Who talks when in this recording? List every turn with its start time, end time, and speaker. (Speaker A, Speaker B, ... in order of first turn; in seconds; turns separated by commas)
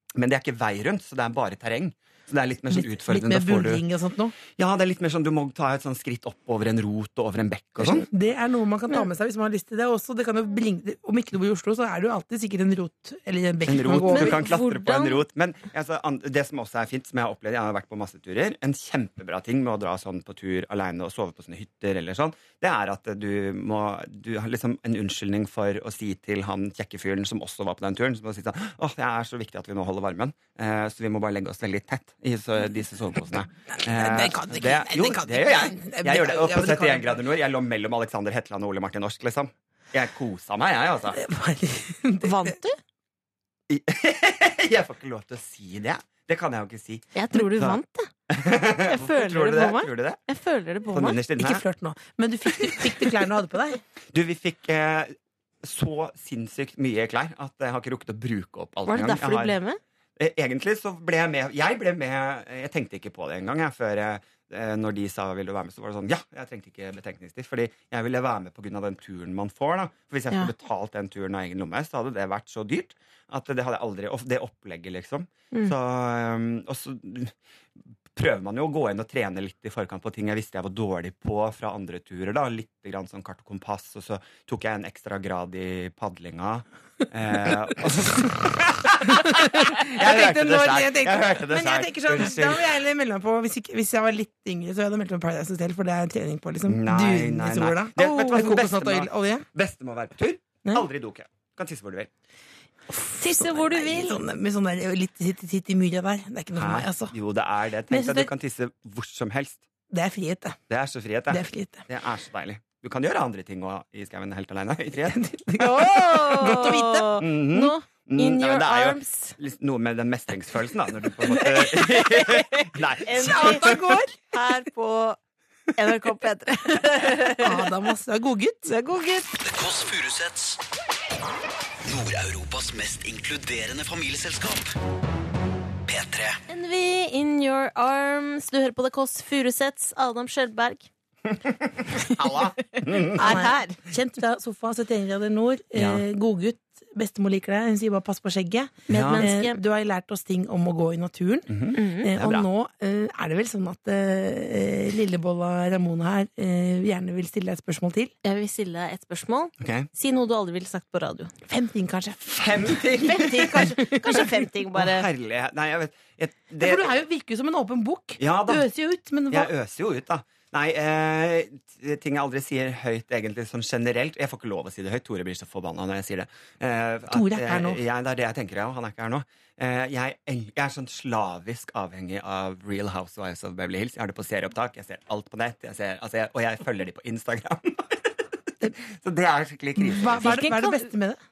Speaker A: 0.2-3.8, Speaker B: 2.7-4.4, Speaker A: 4.5-8.1, Speaker B: 7.8-14.5, Speaker A: 13.7-41.2, Speaker C: 14.0-15.2, Speaker B: 33.8-37.2, Speaker B: 41.1-42.6, Speaker C: 42.2-42.8, Speaker A: 43.7-50.2, Speaker C: 47.1-48.1, Speaker C: 48.8-51.2, Speaker A: 50.9-51.6, Speaker B: 51.4-53.8, Speaker A: 52.6-52.9, Speaker A: 54.1-59.6, Speaker C: 58.9-59.8, Speaker A: 60.2-77.3, Speaker A: 78.2-92.6, Speaker B: 89.0-99.5, Speaker A: 96.7-102.1, Speaker B: 102.9-107.1, Speaker C: 103.1-104.2, Speaker A: 106.5-109.7, Speaker B: 107.9-108.3, Speaker B: 109.9-110.6, Speaker A: 110.7-115.2, Speaker B: 111.3-111.8, Speaker B: 115.1-117.2, Speaker C: 115.6-119.3, Speaker A: 117.2-123.8, Speaker C: 121.2-125.2, Speaker B: 123.2-124.1, Speaker C: 125.8-127.7, Speaker B: 127.4-128.7, Speaker C: 128.7-129.4, Speaker D: 129.4-130.6, Speaker D: 131.8-134.7, Speaker D: 135.9-136.4, Speaker C: 136.5-140.9, Speaker A: 141.7-143.4, Speaker C: 142.8-143.8, Speaker B: 143.1-158.1, Speaker A: 145.8-146.1, Speaker C: 148.9-149.6, Speaker A: 148.9-149.3, Speaker A: 151.5-152.5, Speaker C: 151.7-152.1, Speaker C: 158.2-161.3, Speaker A: 159.6-159.9, Speaker B: 161.5-164.3, Speaker A: 162.3-163.7, Speaker C: 163.0-165.1, Speaker A: 164.7-166.9, Speaker B: 166.6-169.5, Speaker A: 168.2-168.7, Speaker A: 169.3-190.4, Speaker B: 177.1-177.8, Speaker B: 189.8-191.2, Speaker C: 190.2-190.9